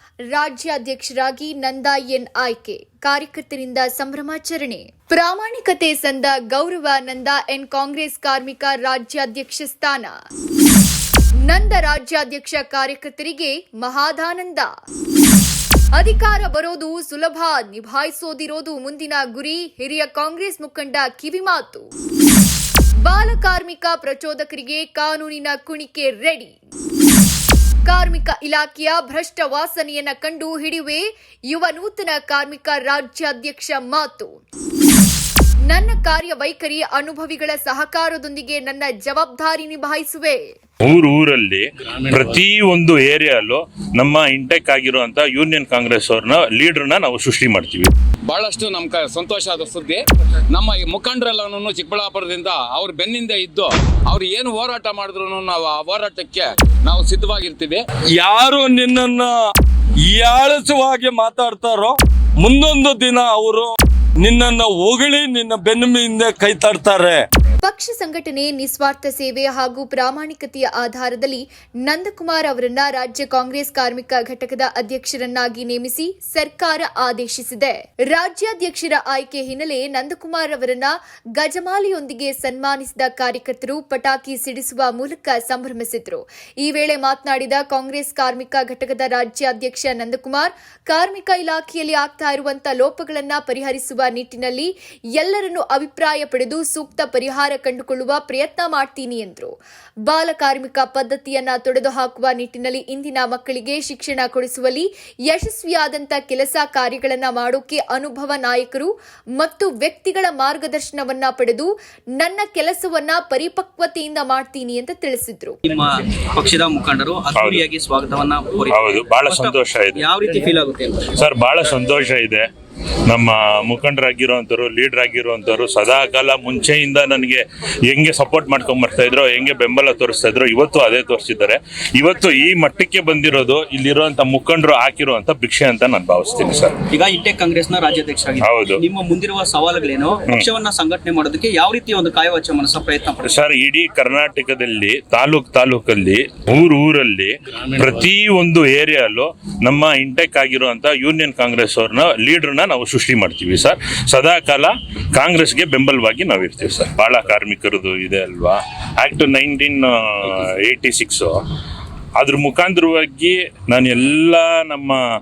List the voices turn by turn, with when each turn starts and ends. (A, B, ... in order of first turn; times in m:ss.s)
0:00.3-0:10.1 A
0:11.5-0:14.7 A
0:16.0-0:21.9 A
0:23.0-0:26.5 A
0:27.8-0:34.3 A
0:35.7-0:40.4 A
0:40.8-0:47.9 B
0:48.3-0:57.8 C
0:58.2-0:59.3 D
1:00.1-1:07.2 D
1:07.6-1:39.5 A
1:40.1-1:55.6 A
1:55.6-2:01.1 E
1:57.3-1:57.7 B
1:58.7-2:00.1 B
2:01.2-2:02.5 B
2:03.1-2:16.8 B
2:16.9-2:23.2 E
2:18.4-2:18.8 B
2:23.2-2:41.4 B
2:42.2-2:45.0 B